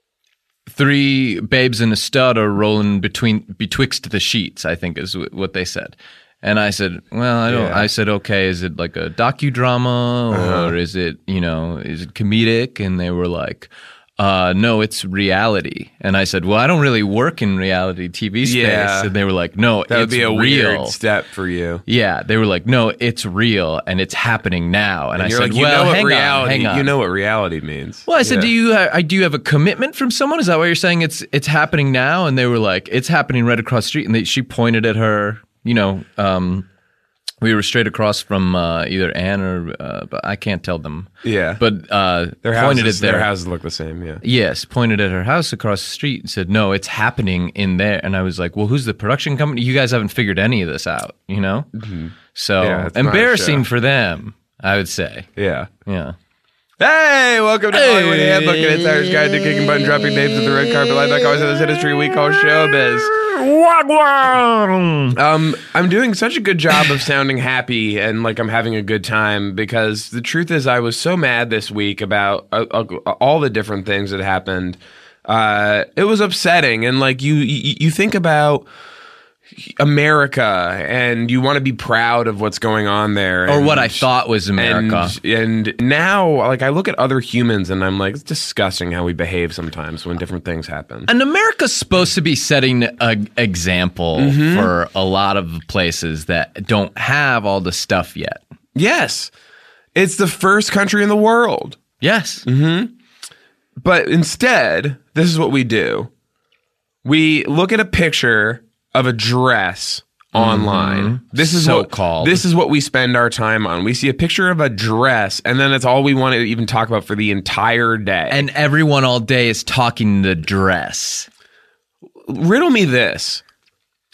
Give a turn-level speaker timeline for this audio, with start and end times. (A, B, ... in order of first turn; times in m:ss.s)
0:00.7-0:21.0 A
0:07.5-0:07.9 B
0:10.3-0:10.7 B
0:18.4-0:19.1 B
0:19.9-0:21.8 B
0:21.9-0:26.9 A
0:25.2-0:28.5 B
0:28.1-0:36.6 A
0:37.4-0:43.3 A
0:41.2-0:41.6 B
0:42.4-0:44.2 B
0:44.2-0:51.7 A
0:51.7-0:53.6 B
0:52.3-0:55.3 A
0:55.4-0:55.7 B
0:55.8-0:56.2 A
0:56.8-1:03.1 B
0:57.7-0:59.8 A
1:03.1-1:05.1 A
1:05.1-1:18.7 B
1:19.6-1:31.1 B
1:23.5-1:25.2 A
1:31.1-1:38.4 A
1:34.1-1:34.7 B
1:38.7-1:39.3 B
1:39.9-1:41.8 B
1:42.0-1:42.4 A
1:42.4-1:42.9 B
1:43.8-1:46.1 B
1:47.0-1:58.4 B
1:50.3-1:52.4 A
1:58.3-2:01.3 A
2:02.2-2:03.4 B